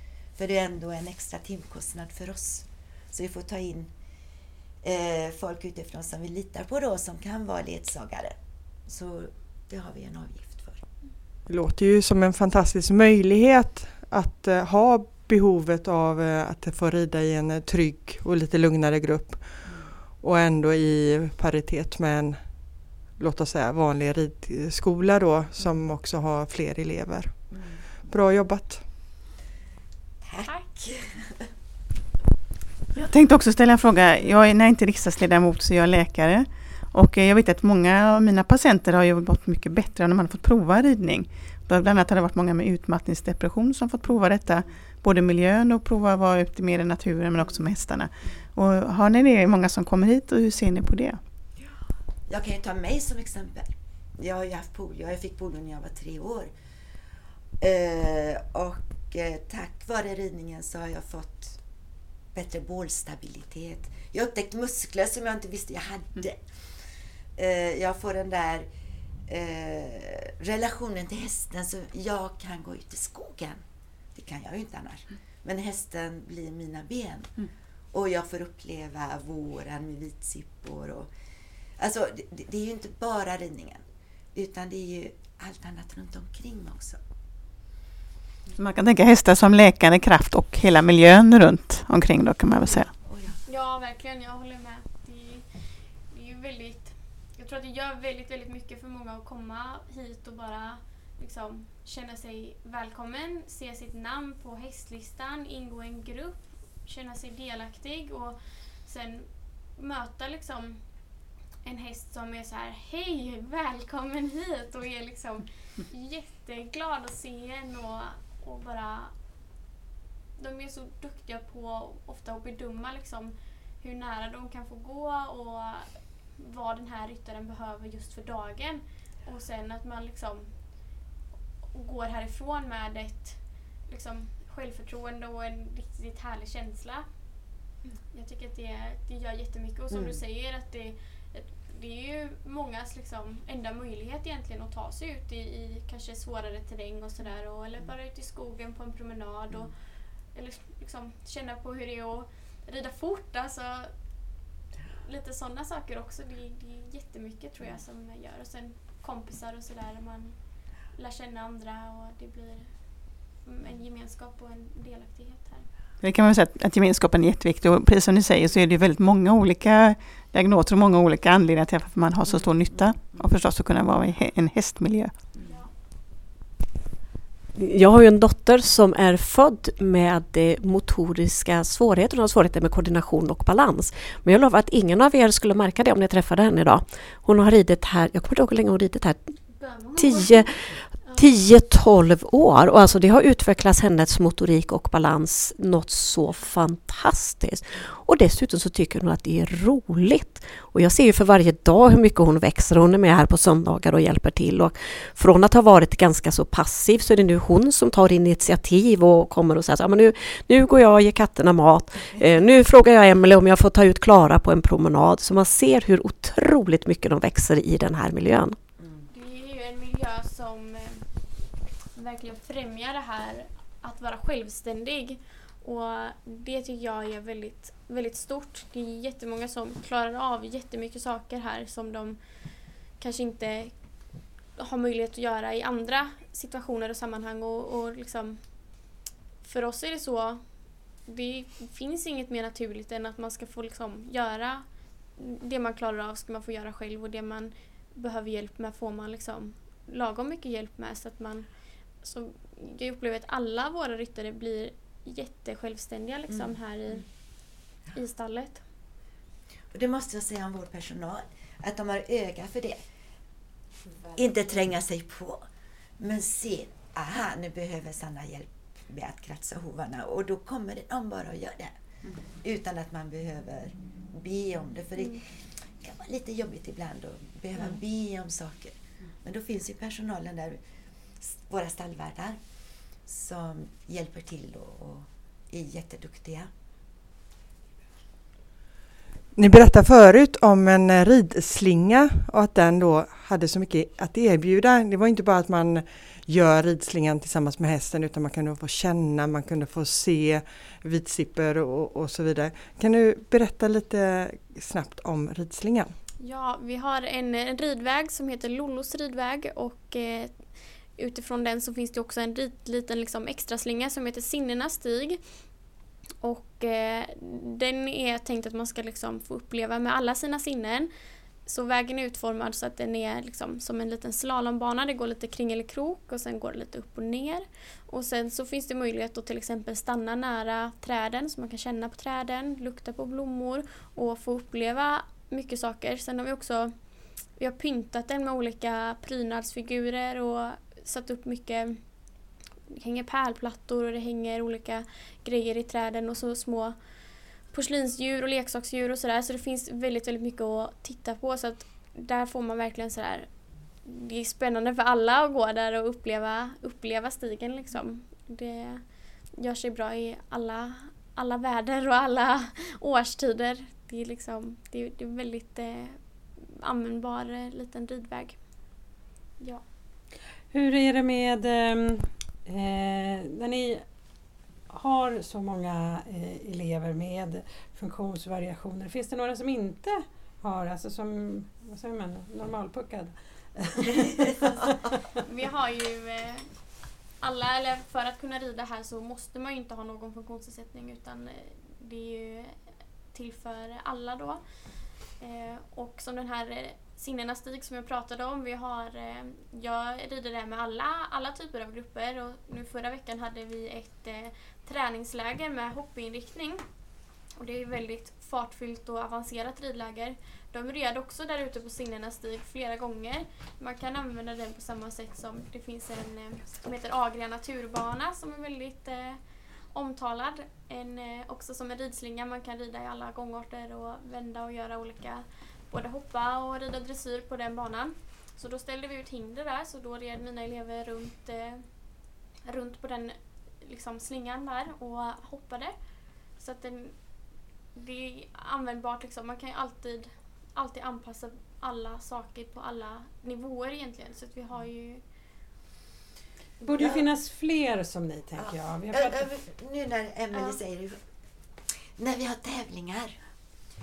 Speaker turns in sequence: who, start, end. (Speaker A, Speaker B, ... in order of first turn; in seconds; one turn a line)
Speaker A: 0.4-3.9
Speaker A: 4.8-10.9
Speaker B: 11.5-27.5
Speaker B: 28.1-28.9
Speaker A: 30.2-31.5
Speaker C: 33.0-51.2
Speaker A: 52.3-56.5
Speaker A: 57.6-61.6
Speaker A: 62.3-66.7
Speaker A: 67.3-68.7
Speaker A: 69.3-81.1
Speaker A: 81.8-87.0
Speaker C: 88.5-92.9
Speaker A: 93.1-93.4
Speaker D: 93.5-110.8
Speaker D: 111.6-119.2
Speaker D: 120.4-131.0
Speaker D: 131.7-137.1
Speaker D: 138.1-153.9
Speaker A: 139.9-140.2
Speaker D: 155.0-165.7
Speaker C: 166.0-175.2
Speaker E: 177.6-189.3
Speaker D: 189.5-190.5
Speaker E: 190.0-218.6
Speaker A: 218.8-219.1
Speaker D: 219.1-221.1
Speaker D: 221.9-232.2
Speaker D: 233.0-233.7
Speaker D: 234.6-240.5
Speaker D: 241.0-257.1
Speaker A: 256.3-256.6
Speaker D: 257.9-258.6
Speaker A: 259.7-262.8
Speaker A: 264.1-265.5
Speaker A: 266.0-280.6
Speaker A: 281.2-282.4
Speaker A: 283.1-286.5
Speaker B: 289.4-305.9
Speaker D: 306.2-315.2
Speaker D: 316.2-320.9
Speaker D: 321.5-341.8
Speaker D: 342.7-346.8
Speaker D: 347.4-368.9
Speaker F: 370.5-374.0
Speaker F: 374.7-384.7
Speaker D: 384.5-386.6
Speaker D: 387.2-394.4
Speaker D: 394.9-406.6
Speaker D: 407.4-419.2
Speaker D: 419.7-431.8
Speaker D: 432.4-435.8
Speaker D: 436.4-437.0
Speaker D: 437.8-445.0
Speaker F: 446.6-449.3
Speaker A: 446.8-447.1
Speaker A: 448.4-451.0
Speaker A: 451.7-453.2